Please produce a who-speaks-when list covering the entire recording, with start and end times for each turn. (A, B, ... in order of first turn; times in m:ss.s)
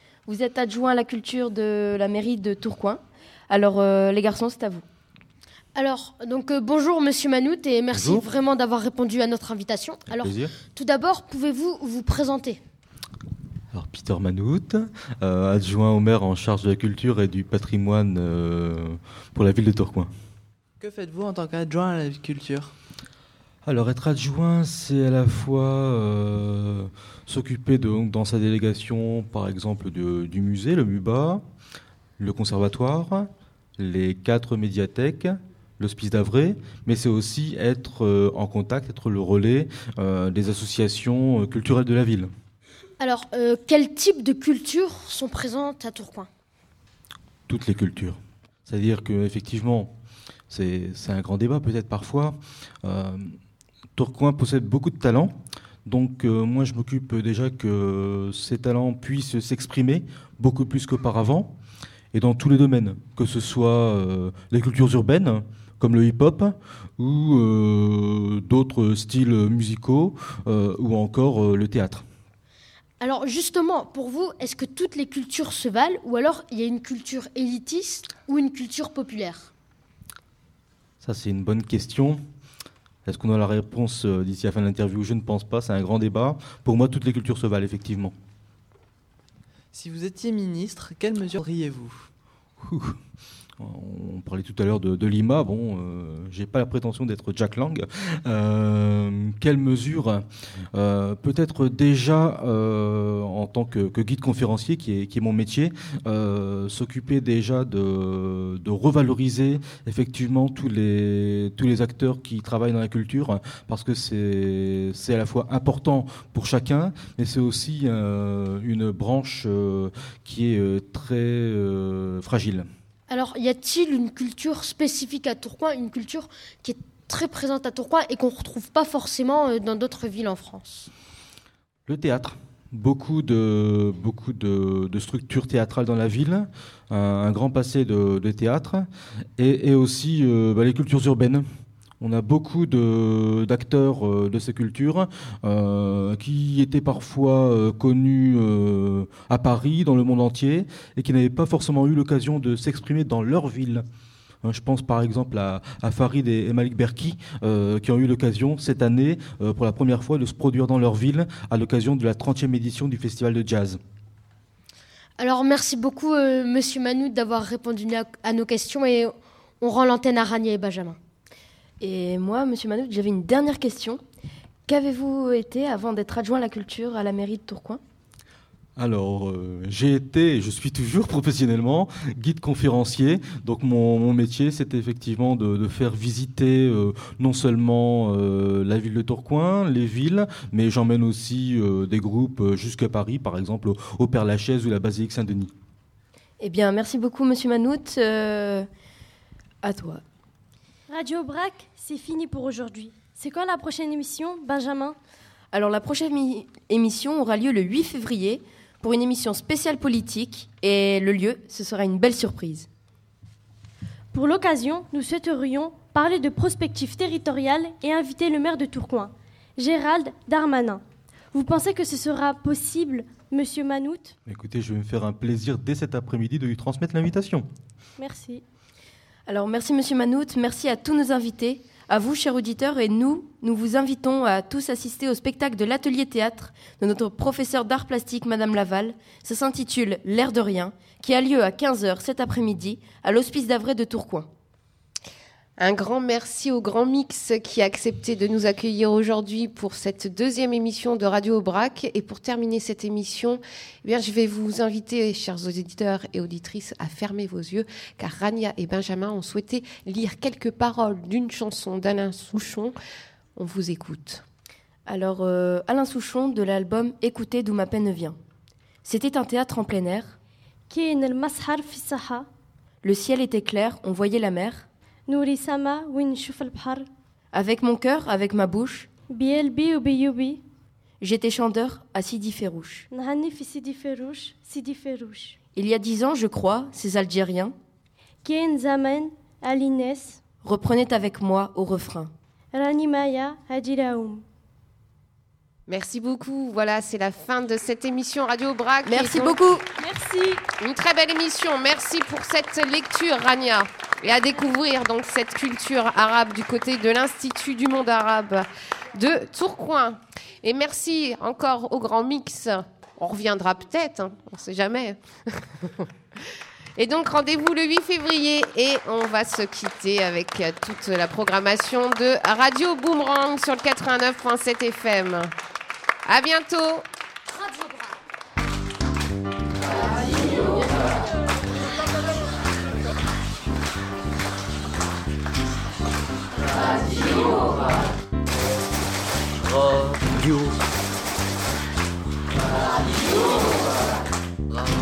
0:00.3-0:04.8 A
0:05.8-0:12.6 B
0:07.9-0:08.3 C
0:10.1-0:10.5 C
0:13.7-0:20.1 C
0:20.8-0:22.7 D
0:23.7-0:31.4 C
0:32.2-0:42.3 C
0:43.0-0:46.3 B
0:47.5-0:49.9 C
0:50.5-0:53.4 C
0:54.0-0:55.4 C
0:55.9-1:01.5 C
1:02.1-1:12.0 C
1:13.0-1:19.5 B
1:21.0-1:22.2 C
1:23.1-1:28.1 C
1:29.7-1:32.1 D
1:32.6-1:33.0 C
1:33.6-2:02.7 C
2:03.1-2:10.9 B
2:11.9-2:18.9 C
2:19.4-2:21.4 C
2:22.0-2:33.8 C
2:34.4-2:43.8 C
2:45.2-2:51.0 B
2:51.8-2:54.0 A
2:54.7-2:57.8 A
2:58.8-3:15.5 C
3:16.4-3:18.7 A
3:19.6-3:20.0 A
3:20.9-3:25.0 E
3:25.5-3:32.7 A
3:34.1-3:40.8 E
3:41.3-3:44.2 E
3:44.3-3:47.5 C
3:48.0-3:48.4 E
3:49.3-4:04.3 A
4:05.6-4:22.8 F
4:23.4-4:24.2 F
4:24.9-4:28.2 A
4:28.8-4:30.2 A
4:30.7-4:32.3 E
4:32.8-4:34.7 A
4:35.1-4:36.9 E
4:37.3-4:38.9 A
4:39.1-4:40.4 E
4:41.0-4:42.9 A
4:42.9-4:45.4 E
4:45.6-4:47.5 A
4:48.2-4:50.2 E
4:50.4-4:52.1 A
4:52.5-4:54.2 E
4:55.7-4:59.4 F
4:58.9-4:59.6 B
4:59.8-5:00.4 E
5:00.6-5:15.8 F
5:16.8-5:25.3 F
5:26.1-5:26.8 F
5:27.4-5:27.9 B
5:40.2-5:40.5 C